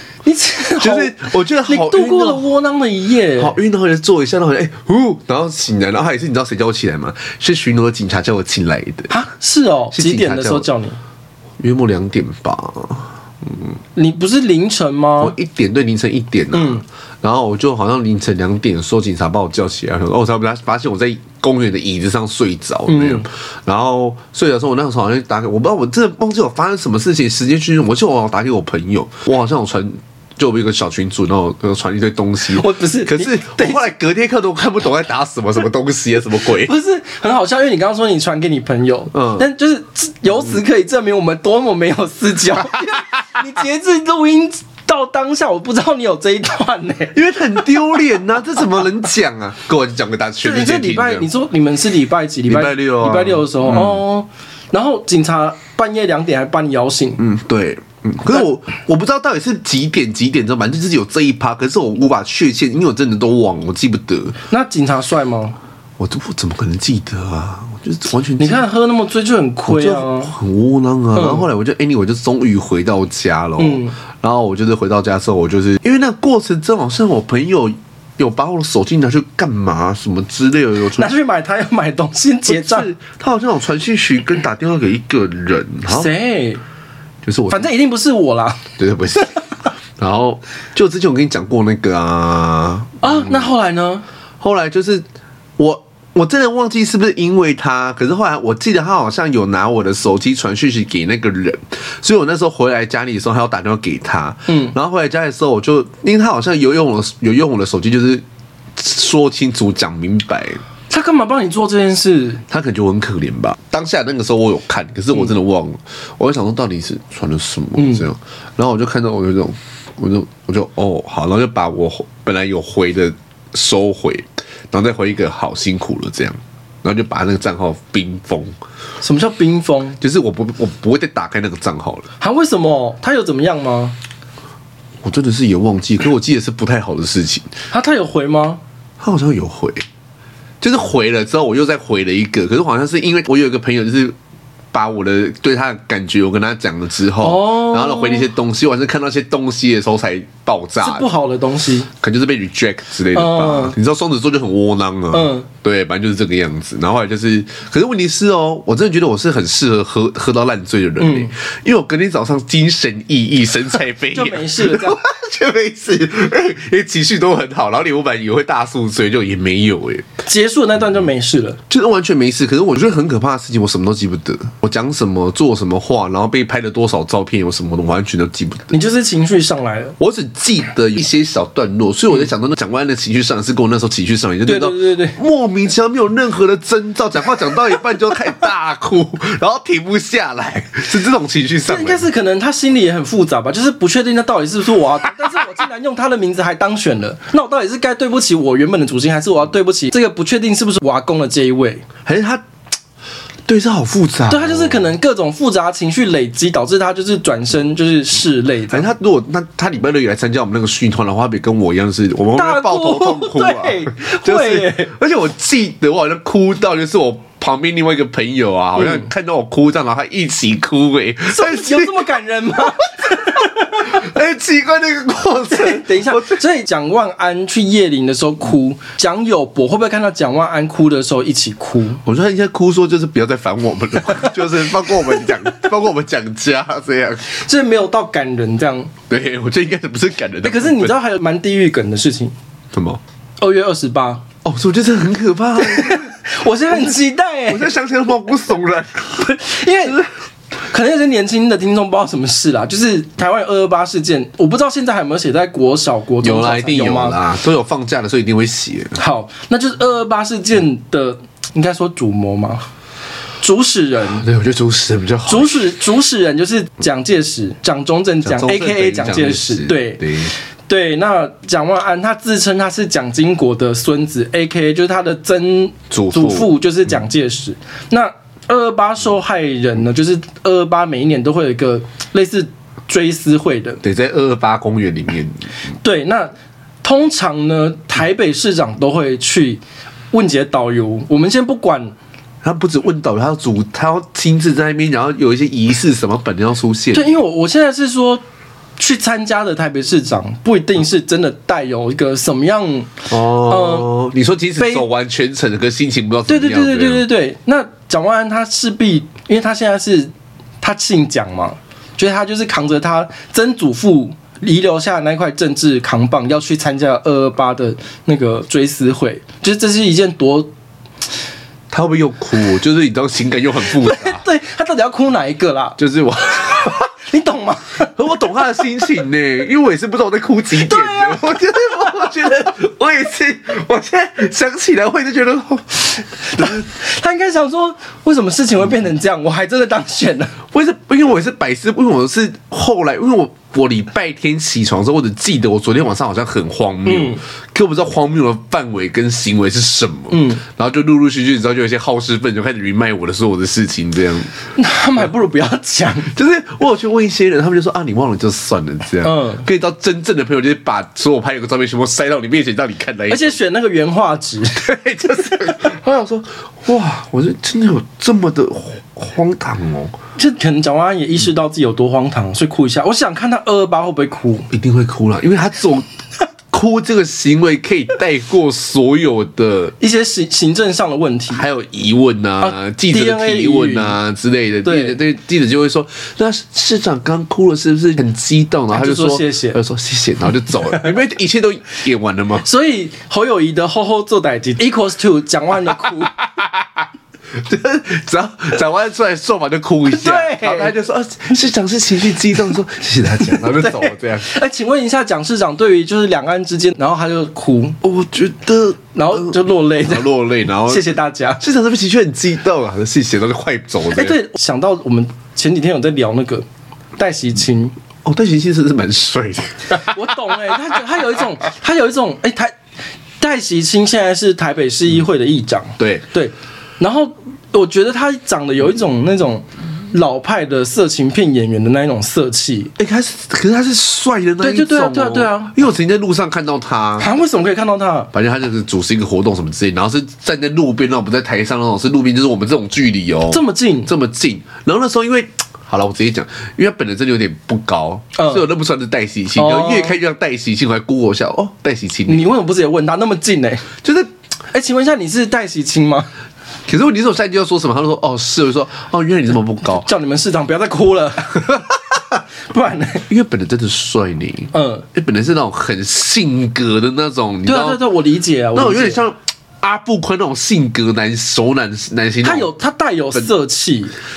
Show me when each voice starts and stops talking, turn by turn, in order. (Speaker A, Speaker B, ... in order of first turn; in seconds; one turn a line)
Speaker A: 0.2-3.5
Speaker B: 0.8-2.4
Speaker B: 3.4-9.1
Speaker A: 9.1-11.0
Speaker B: 9.9-10.7
Speaker B: 11.6-13.7
Speaker A: 14.0-15.3
Speaker B: 15.2-36.7
Speaker A: 16.5-16.8
Speaker A: 22.9-23.3
Speaker A: 32.5-33.8
Speaker A: 36.6-47.2
Speaker B: 39.1-39.5
Speaker B: 47.1-51.3
Speaker A: 50.4-57.2
Speaker B: 52.5-54.0
Speaker B: 57.2-64.4
Speaker A: 64.5-65.6
Speaker B: 66.0-68.7
Speaker A: 68.4-70.3
Speaker B: 69.7-81.1
Speaker A: 71.2-71.5
Speaker A: 73.6-74.0
Speaker A: 81.0-82.9
Speaker B: 82.5-86.1
Speaker A: 85.9-86.6
Speaker B: 87.2-87.7
Speaker A: 87.5-89.4
Speaker B: 88.8-89.4
Speaker B: 90.0-93.5
Speaker A: 93.0-94.0
Speaker B: 94.4-95.0
Speaker B: 95.6-108.2
Speaker A: 104.5-104.8
Speaker B: 108.8-110.6
Speaker A: 110.9-112.4
Speaker B: 112.5-128.5
Speaker A: 117.8-118.0
Speaker A: 129.0-130.0
Speaker B: 130.0-132.1
Speaker A: 132.2-134.0
Speaker B: 135.0-137.5
Speaker A: 137.7-138.6
Speaker B: 139.0-139.8
Speaker B: 140.6-144.2
Speaker B: 144.7-151.1
Speaker A: 147.2-148.3
Speaker A: 150.8-151.9
Speaker B: 151.9-170.1
Speaker A: 153.1-153.8
Speaker A: 155.1-155.5
Speaker A: 161.0-161.3
Speaker A: 164.1-165.0
Speaker A: 170.3-171.6
Speaker B: 171.7-178.8
Speaker A: 178.7-180.0
Speaker B: 180.0-192.1
Speaker A: 184.5-185.2
Speaker A: 191.7-201.9
Speaker B: 202.1-202.4
Speaker B: 203.5-204.9
Speaker A: 204.3-208.9
Speaker B: 208.7-222.1
Speaker A: 212.3-214.9
Speaker A: 218.8-219.1
Speaker A: 221.3-224.1
Speaker B: 223.8-226.4
Speaker A: 225.5-232.0
Speaker B: 232.0-237.3
Speaker A: 234.2-235.5
Speaker A: 237.3-238.9
Speaker B: 239.1-240.9
Speaker A: 240.4-242.3
Speaker B: 242.7-243.0
Speaker A: 243.4-244.2
Speaker B: 244.4-246.1
Speaker A: 245.6-247.7
Speaker B: 247.5-250.1
Speaker A: 249.2-250.0
Speaker A: 250.7-257.2
Speaker B: 256.2-259.0
Speaker A: 259.0-262.6
Speaker A: 263.4-264.3
Speaker B: 264.2-265.6
Speaker A: 265.3-283.8
Speaker B: 268.2-270.3
Speaker B: 275.9-276.5
Speaker B: 283.8-285.4
Speaker A: 285.8-291.9
Speaker B: 292.4-297.1
Speaker A: 296.9-298.2
Speaker A: 298.8-303.9
Speaker B: 303.1-307.1
Speaker A: 304.6-304.9
Speaker A: 306.3-320.5
Speaker B: 321.7-324.2
Speaker A: 323.7-325.8
Speaker B: 325.8-326.9
Speaker A: 327.1-327.9
Speaker B: 328.0-336.6
Speaker A: 330.6-331.6
Speaker A: 336.0-340.4
Speaker B: 340.5-354.4
Speaker A: 346.9-347.2
Speaker A: 350.1-350.4
Speaker A: 354.6-356.1
Speaker B: 356.1-363.4
Speaker A: 359.0-359.5
Speaker A: 363.1-365.6
Speaker B: 364.5-369.9
Speaker A: 370.2-374.5
Speaker B: 374.5-375.9
Speaker B: 376.5-379.8
Speaker A: 379.8-381.5
Speaker B: 381.3-392.5
Speaker A: 382.4-384.0
Speaker A: 384.6-385.0
Speaker A: 388.7-389.6
Speaker A: 392.4-396.2
Speaker B: 396.2-404.3
Speaker A: 399.9-400.7
Speaker A: 403.4-407.8
Speaker B: 407.8-410.9
Speaker A: 408.9-410.1
Speaker A: 410.6-411.4
Speaker B: 411.4-414.2
Speaker A: 413.9-416.4
Speaker A: 417.0-417.7
Speaker B: 418.1-419.9
Speaker A: 419.8-422.5
Speaker A: 423.2-432.7
Speaker B: 425.8-426.1
Speaker B: 432.8-437.1
Speaker A: 434.4-435.5
Speaker A: 437.0-438.1
Speaker B: 438.1-452.2
Speaker A: 443.3-443.9
Speaker A: 448.2-448.4
Speaker A: 449.4-450.0
Speaker A: 452.1-453.7
Speaker B: 453.8-454.1
Speaker A: 454.5-456.1
Speaker B: 456.7-459.9
Speaker A: 459.7-461.7
Speaker A: 462.5-463.1
Speaker B: 463.1-467.8
Speaker A: 464.5-464.9
Speaker A: 467.5-469.0
Speaker B: 468.6-472.5
Speaker A: 472.2-473.9